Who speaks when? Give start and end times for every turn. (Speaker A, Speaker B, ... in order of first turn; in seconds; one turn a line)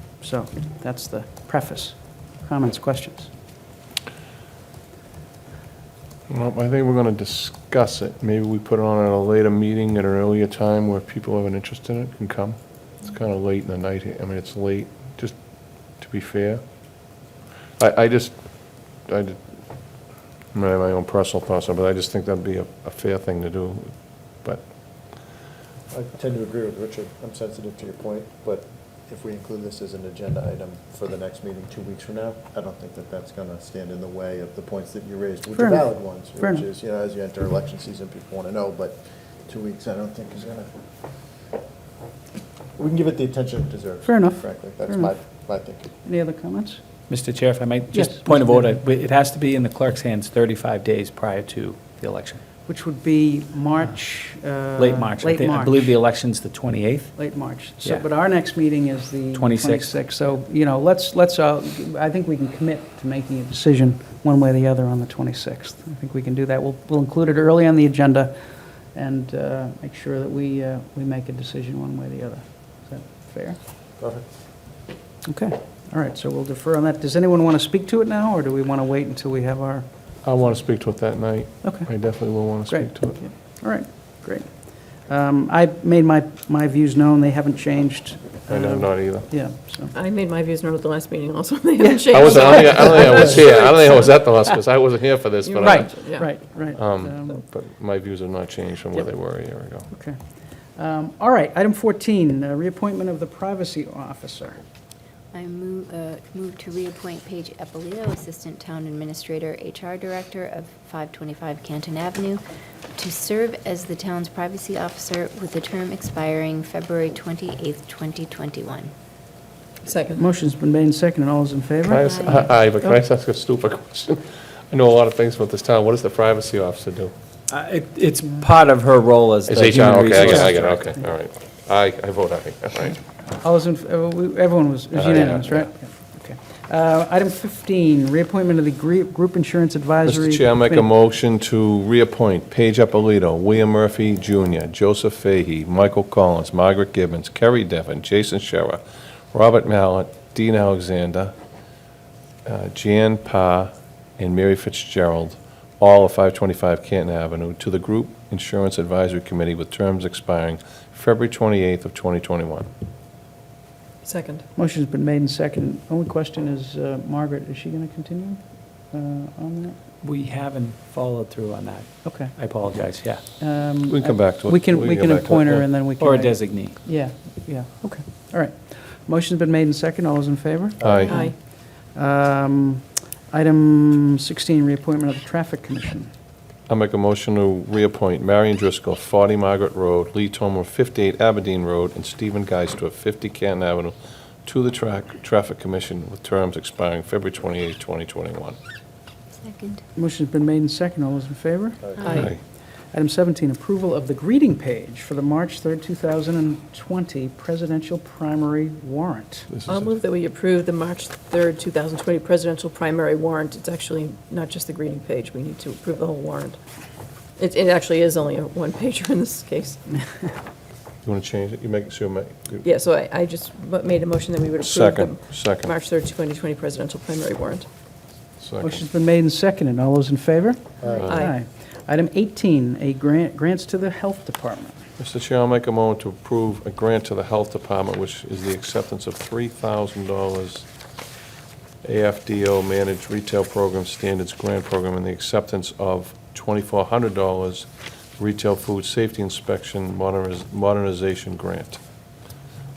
Speaker A: 0.2-3.3
Speaker B: 6.3-15.3
Speaker B: 16.0-16.6
Speaker B: 17.8-19.4
Speaker B: 20.5-24.6
Speaker C: 25.9-40.7
Speaker A: 35.5-36.6
Speaker C: 42.8-45.9
Speaker A: 44.0-45.1
Speaker A: 46.0-46.8
Speaker D: 47.1-52.4
Speaker A: 48.0-48.6
Speaker A: 52.7-56.0
Speaker D: 54.8-57.1
Speaker A: 57.1-68.3
Speaker D: 59.3-59.9
Speaker A: 68.9-73.6
Speaker C: 74.0-74.2
Speaker A: 75.3-79.9
Speaker B: 80.2-83.2
Speaker A: 81.6-89.9
Speaker B: 88.5-89.3
Speaker E: 89.9-93.9
Speaker A: 91.8-93.5
Speaker B: 92.1-95.9
Speaker E: 95.4-96.3
Speaker A: 95.6-97.4
Speaker B: 96.7-99.9
Speaker A: 99.9-100.2
Speaker A: 100.8-104.6
Speaker F: 105.3-112.4
Speaker F: 112.9-118.9
Speaker E: 119.8-120.2
Speaker A: 120.2-123.0
Speaker B: 121.9-127.1
Speaker F: 122.0-122.4
Speaker D: 127.5-130.7
Speaker B: 129.5-133.0
Speaker A: 130.3-130.6
Speaker A: 133.3-140.9
Speaker B: 134.9-135.7
Speaker B: 140.0-148.8
Speaker B: 149.3-151.3
Speaker B: 152.4-162.7
Speaker E: 164.0-164.4
Speaker A: 164.6-169.8
Speaker D: 170.0-173.2
Speaker A: 172.0-172.3
Speaker A: 173.4-181.3
Speaker B: 173.9-175.7
Speaker D: 176.0-176.8
Speaker C: 180.8-181.1
Speaker B: 180.8-181.2
Speaker E: 181.1-181.3
Speaker A: 181.9-186.1
Speaker B: 186.7-198.6
Speaker F: 199.4-199.8
Speaker A: 199.9-202.4
Speaker C: 201.8-202.3
Speaker E: 202.0-202.3
Speaker B: 202.1-202.4
Speaker A: 202.9-209.5
Speaker B: 209.5-210.0
Speaker E: 209.7-216.6
Speaker E: 217.4-219.9
Speaker B: 221.0-222.7
Speaker E: 222.6-227.7
Speaker B: 224.6-225.7
Speaker B: 228.4-228.8
Speaker A: 228.6-234.8
Speaker B: 230.8-231.3
Speaker E: 230.9-231.3
Speaker B: 235.0-240.7
Speaker B: 241.8-247.7
Speaker B: 248.2-251.8